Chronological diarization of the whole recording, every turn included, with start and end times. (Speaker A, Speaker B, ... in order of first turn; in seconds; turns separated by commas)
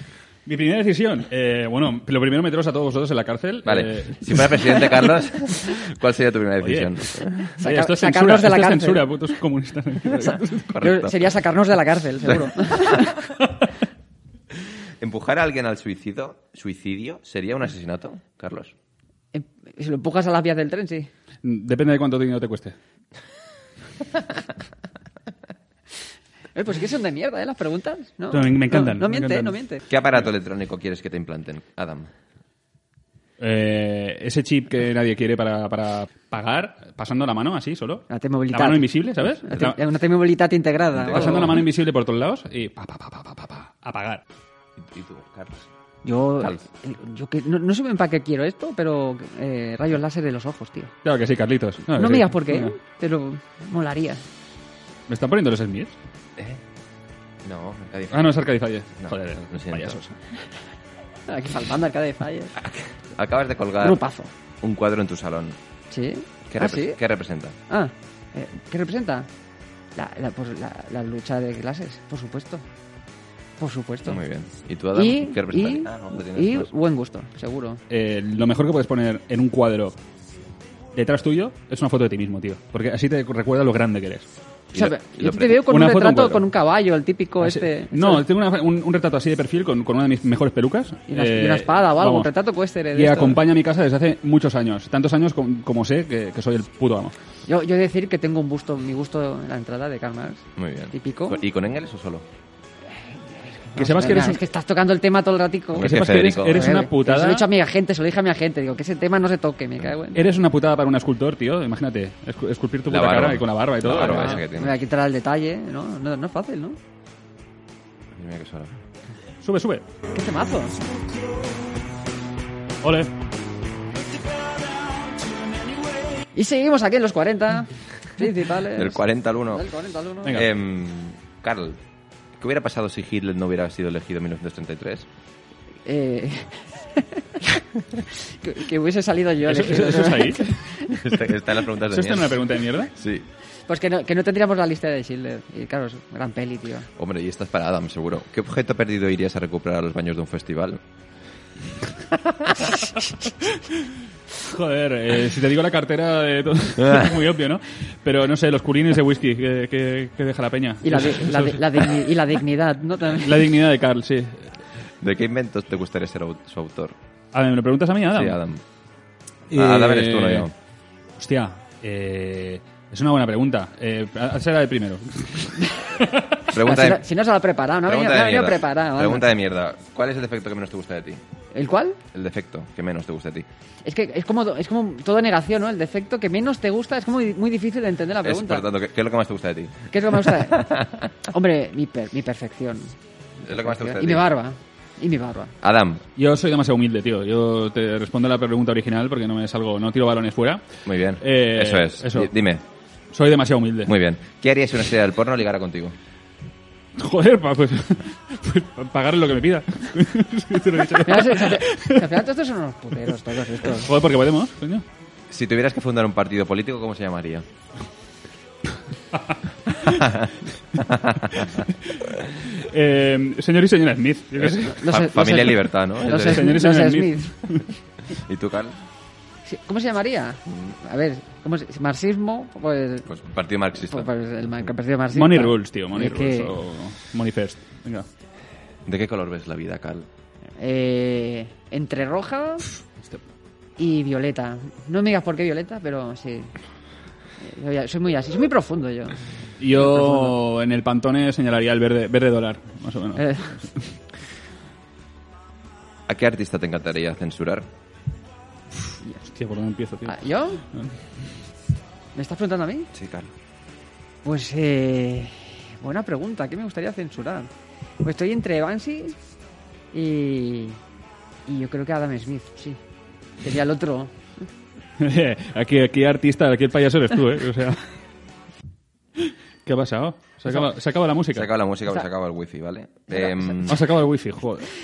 Speaker A: 0.5-4.8, Speaker B: 3.6-7.5, Speaker A: 6.6-10.8, Speaker C: 7.6-9.2, Speaker B: 10.6-11.3, Speaker C: 10.8-13.2, Speaker B: 14.7-18.8, Speaker C: 19.3-21.1, Speaker A: 21.4-22.8, Speaker C: 26.6-29.9, Speaker A: 28.3-29.6, Speaker B: 29.9-32.1, Speaker A: 33.4-39.8, Speaker C: 38.1-41.6, Speaker B: 40.9-41.6, Speaker A: 41.1-44.2, Speaker B: 44.8-45.7, Speaker C: 46.0-51.0, Speaker A: 51.0-52.7, Speaker C: 51.9-54.2, Speaker A: 55.1-56.0, Speaker B: 56.4-56.6, Speaker B: 57.4-58.4, Speaker A: 58.1-60.2, Speaker B: 59.0-60.0, Speaker C: 61.3-62.5, Speaker B: 62.6-64.0, Speaker C: 63.8-64.3, Speaker B: 64.6-65.6, Speaker C: 65.9-67.0, Speaker B: 66.5-67.6, Speaker C: 67.7-69.3, Speaker C: 70.0-72.6, Speaker C: 73.6-74.2, Speaker B: 74.1-76.7, Speaker C: 74.9-77.8, Speaker A: 77.9-80.0, Speaker A: 80.9-84.3, Speaker B: 84.7-85.6, Speaker C: 84.7-88.2, Speaker A: 85.4-86.5, Speaker A: 87.4-92.3, Speaker C: 91.1-93.4, Speaker A: 92.9-97.1, Speaker C: 97.5-101.4, Speaker B: 100.6-102.2, Speaker C: 102.9-110.2, Speaker A: 103.8-104.4, Speaker B: 105.7-106.8, Speaker A: 105.8-107.5, Speaker A: 110.1-114.4, Speaker B: 112.9-114.8, Speaker C: 114.0-116.8, Speaker B: 118.1-118.7, Speaker A: 119.4-119.8, Speaker C: 120.1-120.8, Speaker A: 122.8-123.1, Speaker C: 126.3-130.4, Speaker B: 128.7-129.7, Speaker B: 130.3-131.8, Speaker B: 132.4-135.1, Speaker C: 135.9-141.0, Speaker A: 139.4-140.7, Speaker B: 140.9-143.3, Speaker A: 141.8-142.9, Speaker C: 143.7-146.9, Speaker B: 147.0-150.8, Speaker B: 152.1-152.6, Speaker A: 153.5-162.1, Speaker B: 156.8-157.1, Speaker C: 160.8-163.5, Speaker A: 163.1-164.6, Speaker B: 165.0-167.0, Speaker A: 167.3-168.4, Speaker B: 168.1-168.6, Speaker A: 169.5-170.5, Speaker B: 169.5-170.5, Speaker A: 171.2-176.5, Speaker B: 176.5-177.1, Speaker C: 176.5-179.3, Speaker B: 177.8-181.2, Speaker C: 181.5-182.0, Speaker B: 182.1-183.5, Speaker C: 183.8-188.7, Speaker B: 188.2-191.1, Speaker C: 189.9-195.5, Speaker B: 193.4-194.3, Speaker B: 195.6-196.1, Speaker A: 196.2-202.3, Speaker B: 200.8-202.7, Speaker A: 203.1-203.9, Speaker B: 203.8-205.9, Speaker A: 207.0-212.2, Speaker C: 211.0-213.9, Speaker A: 213.6-214.8, Speaker B: 215.3-217.5, Speaker A: 219.3-219.9, Speaker B: 219.9-221.6, Speaker A: 221.8-224.8, Speaker B: 224.4-226.6, Speaker C: 224.7-227.6, Speaker A: 226.1-227.7, Speaker B: 228.1-228.8, Speaker C: 229.4-233.1, Speaker B: 233.1-234.1, Speaker C: 233.8-236.6, Speaker A: 235.1-238.1, Speaker B: 238.8-240.1, Speaker C: 240.6-242.7, Speaker C: 243.8-246.5, Speaker C: 247.4-249.2, Speaker A: 249.6-253.9, Speaker C: 249.8-250.3, Speaker C: 253.2-253.5, Speaker B: 256.1-257.7, Speaker A: 259.3-260.2, Speaker C: 260.1-260.6, Speaker C: 262.1-262.9, Speaker B: 262.9-263.3, Speaker C: 264.2-267.5, Speaker C: 268.0-269.2, Speaker C: 269.9-270.8, Speaker C: 271.5-272.8, Speaker C: 273.4-274.3, Speaker A: 275.0-277.9, Speaker A: 279.2-281.5, Speaker B: 281.3-283.9, Speaker A: 283.6-284.7